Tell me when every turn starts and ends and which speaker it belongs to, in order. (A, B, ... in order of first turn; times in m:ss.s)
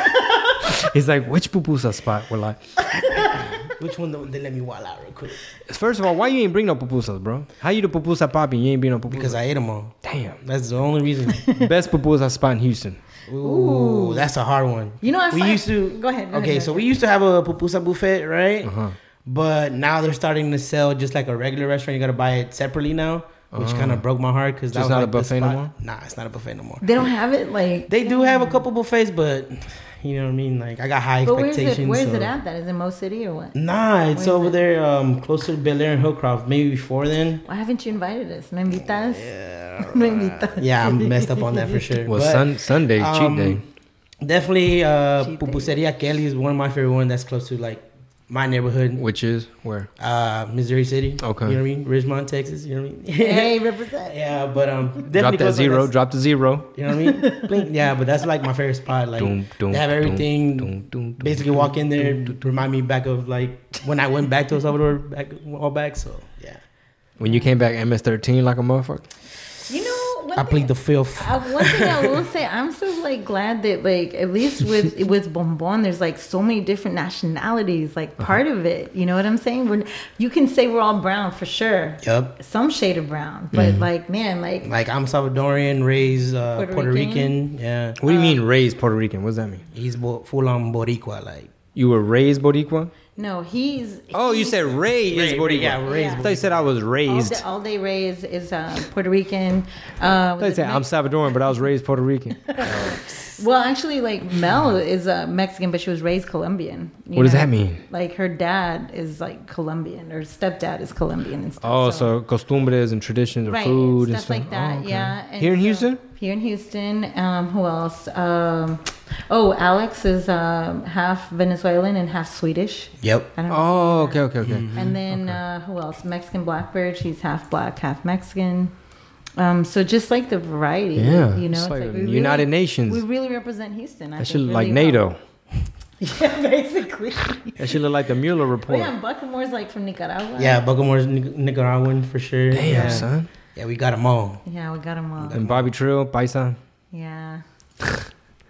0:00.6-0:03.5 A
0:03.8-0:05.4 B
0:05.7-0:09.4 A
0:09.1-0:11.5 B
0:10.0-0:10.4 A
0:11.6-0:13.0 A
0:13.3-0:26.8 B
0:13.4-0:14.3 C
0:15.0-0:16.9 C
0:18.6-0:19.0 A
0:23.5-0:24.0 A
0:24.7-0:25.7 A
0:26.8-0:28.7 C
0:27.9-0:32.3 B
0:31.2-0:33.6 C
0:33.6-0:37.4 B
0:34.1-0:34.6 C
0:37.4-0:41.8 C
0:38.8-0:43.7 B
0:42.0-0:43.6 A
0:44.2-0:49.0 B
0:45.2-0:45.7 C
0:49.0-0:49.9 A
0:50.0-0:55.9 B
0:51.2-0:51.6 A
0:53.2-0:54.2 C
0:55.1-0:56.7 A
0:56.7-1:06.6 B
0:59.2-1:02.4 A
1:07.2-1:09.1 A
1:07.2-1:07.5 C
1:09.7-1:24.7 C
1:10.4-1:12.2 B
1:22.0-1:22.4 B
1:23.5-1:23.9 A
1:24.6-1:28.0 B
1:26.5-1:27.4 C
1:28.0-1:29.6 A
1:28.1-1:28.4 C
1:29.7-1:31.5 B
1:31.8-1:32.9 A
1:33.2-1:34.8 C
1:34.1-1:37.4 A
1:35.1-1:36.7 B
1:35.9-1:36.2 C
1:37.1-1:41.3 C
1:40.4-1:43.2 A
1:42.5-1:52.1 C
1:47.2-1:47.8 A
1:51.6-1:56.0 A
1:53.5-2:08.7 C
2:03.0-2:03.3 B
2:03.5-2:05.4 A
2:04.4-2:04.9 B
2:09.4-2:15.1 C
2:11.0-2:13.0 A
2:14.2-2:15.2 A
2:16.0-2:17.6 C
2:17.6-2:18.9 A
2:18.7-2:20.6 C
2:20.4-2:24.4 B
2:22.5-2:23.3 A
2:22.7-2:23.1 C
2:24.4-2:25.4 C
2:25.2-2:25.7 B
2:25.3-2:26.6 A
2:26.9-2:27.4 C